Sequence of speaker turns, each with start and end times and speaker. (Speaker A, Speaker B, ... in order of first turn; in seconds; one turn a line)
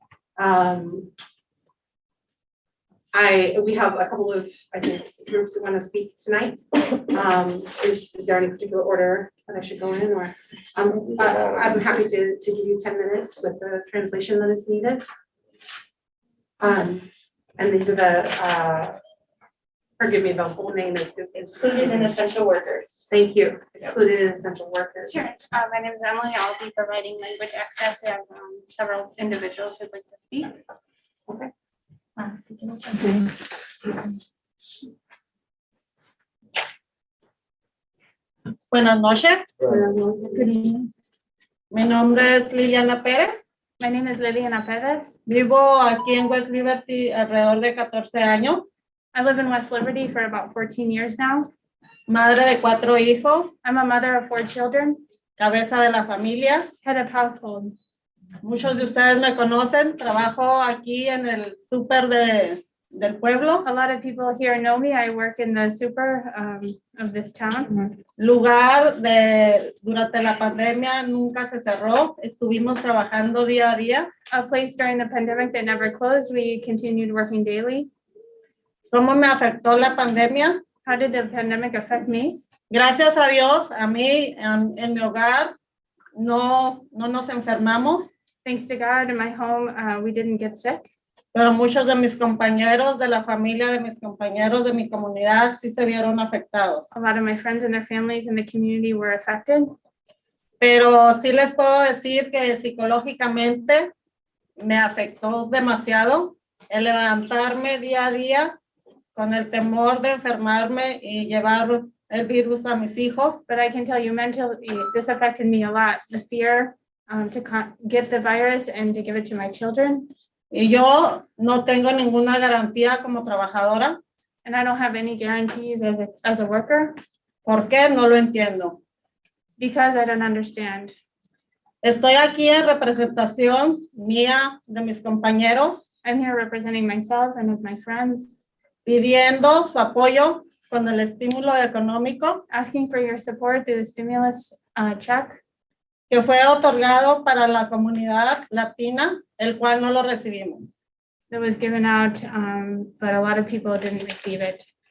Speaker A: 0.4-1.1
Speaker A: 3.1-15.0
Speaker A: 16.6-19.0
Speaker A: 20.0-22.1
Speaker A: 23.1-25.1
Speaker B: 25.1-30.6
Speaker C: 38.7-39.5
Speaker A: 39.7-40.8
Speaker C: 41.7-43.4
Speaker B: 43.8-45.2
Speaker C: 45.3-48.6
Speaker B: 49.1-51.5
Speaker C: 52.1-53.5
Speaker B: 53.6-55.0
Speaker C: 55.4-56.7
Speaker B: 56.8-57.8
Speaker C: 58.4-63.6
Speaker B: 63.6-68.0
Speaker C: 68.2-74.1
Speaker B: 74.3-77.9
Speaker C: 78.9-80.6
Speaker B: 80.8-82.4
Speaker C: 82.7-85.5
Speaker C: 86.2-88.1
Speaker B: 88.4-90.9
Speaker C: 91.3-96.8
Speaker B: 96.9-99.7
Speaker C: 100.6-103.9
Speaker C: 104.6-108.5
Speaker C: 109.1-113.4
Speaker B: 113.5-120.1
Speaker C: 120.5-124.0
Speaker B: 124.4-127.0
Speaker C: 127.4-128.8
Speaker B: 129.6-130.9
Speaker C: 131.8-135.8
Speaker B: 136.0-138.4
Speaker C: 138.8-142.4
Speaker B: 142.5-145.4
Speaker C: 146.1-150.7
Speaker B: 151.3-154.7